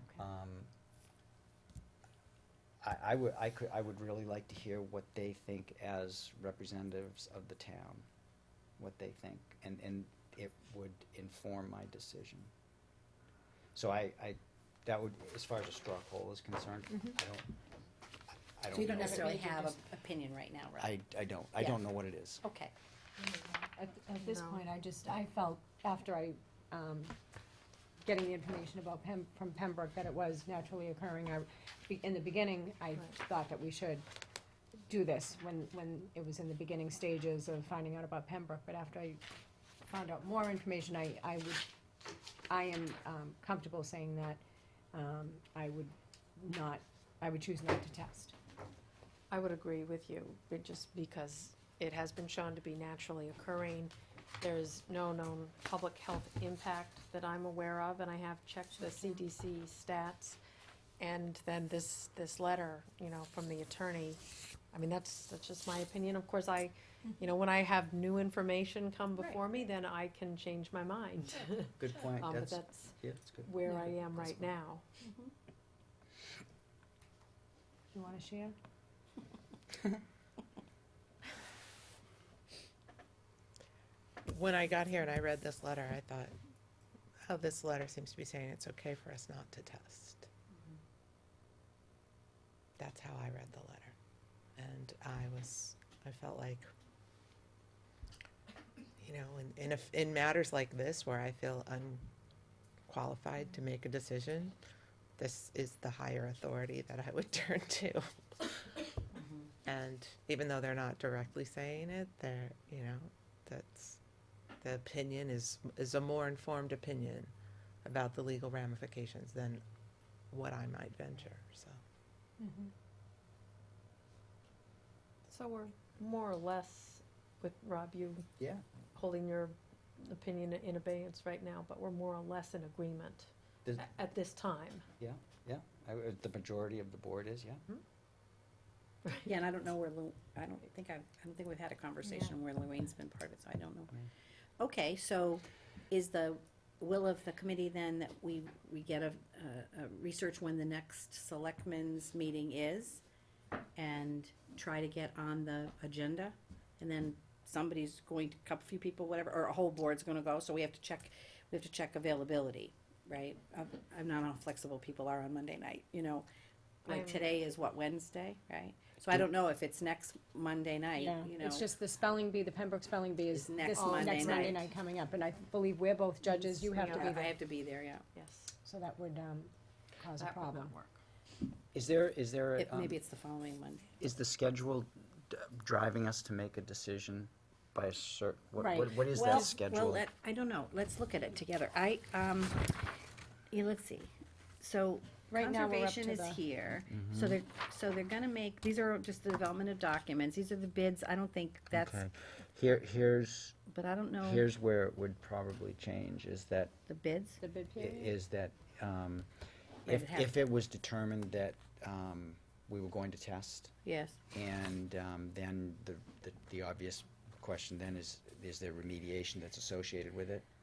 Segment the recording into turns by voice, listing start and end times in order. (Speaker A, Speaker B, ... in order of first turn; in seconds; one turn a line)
Speaker A: 0.1-0.7
Speaker A: 2.8-8.1
Speaker A: 8.8-12.5
Speaker A: 13.7-17.5
Speaker A: 18.3-19.4
Speaker B: 18.7-19.8
Speaker C: 18.7-20.9
Speaker A: 20.8-22.4
Speaker C: 22.4-22.7
Speaker D: 23.2-24.6
Speaker B: 23.8-27.1
Speaker B: 28.0-34.0
Speaker B: 34.9-39.2
Speaker B: 39.9-41.7
Speaker B: 42.5-44.4
Speaker B: 44.9-48.3
Speaker D: 49.3-60.4
Speaker D: 61.0-64.2
Speaker D: 64.7-74.8
Speaker C: 69.2-69.4
Speaker A: 71.8-73.5
Speaker A: 74.1-74.4
Speaker C: 75.0-75.3
Speaker B: 77.9-78.5
Speaker E: 84.2-86.3
Speaker E: 87.2-90.3
Speaker E: 92.8-93.9
Speaker E: 94.5-96.7
Speaker E: 99.0-102.0
Speaker E: 102.9-104.5
Speaker E: 105.2-108.0
Speaker C: 109.1-109.5
Speaker E: 109.6-114.0
Speaker E: 114.6-117.3
Speaker E: 117.8-119.6
Speaker E: 120.3-121.8
Speaker B: 122.4-122.7
Speaker D: 125.3-128.2
Speaker A: 128.4-128.6
Speaker D: 128.9-134.8
Speaker A: 135.0-137.6
Speaker C: 139.2-143.9
Speaker C: 144.6-153.0
Speaker C: 153.8-166.3
Speaker C: 166.8-171.6
Speaker D: 166.9-167.4
Speaker B: 171.0-177.3
Speaker C: 173.3-174.7
Speaker D: 173.8-174.5
Speaker D: 176.2-177.3
Speaker C: 176.8-178.0
Speaker D: 178.1-178.5
Speaker B: 178.6-180.7
Speaker D: 180.2-181.0
Speaker A: 181.7-183.0
Speaker C: 182.6-183.9
Speaker A: 184.0-190.0
Speaker B: 188.6-189.4
Speaker C: 189.1-192.9
Speaker C: 193.5-202.1
Speaker B: 195.3-196.4
Speaker A: 196.9-197.4
Speaker A: 201.7-203.6
Speaker C: 203.7-204.5
Speaker A: 204.2-206.7
Speaker C: 206.9-207.4
Speaker B: 207.4-208.1
Speaker A: 207.8-209.3
Speaker C: 209.8-210.4
Speaker A: 209.8-213.7
Speaker C: 213.8-214.2
Speaker A: 214.3-220.4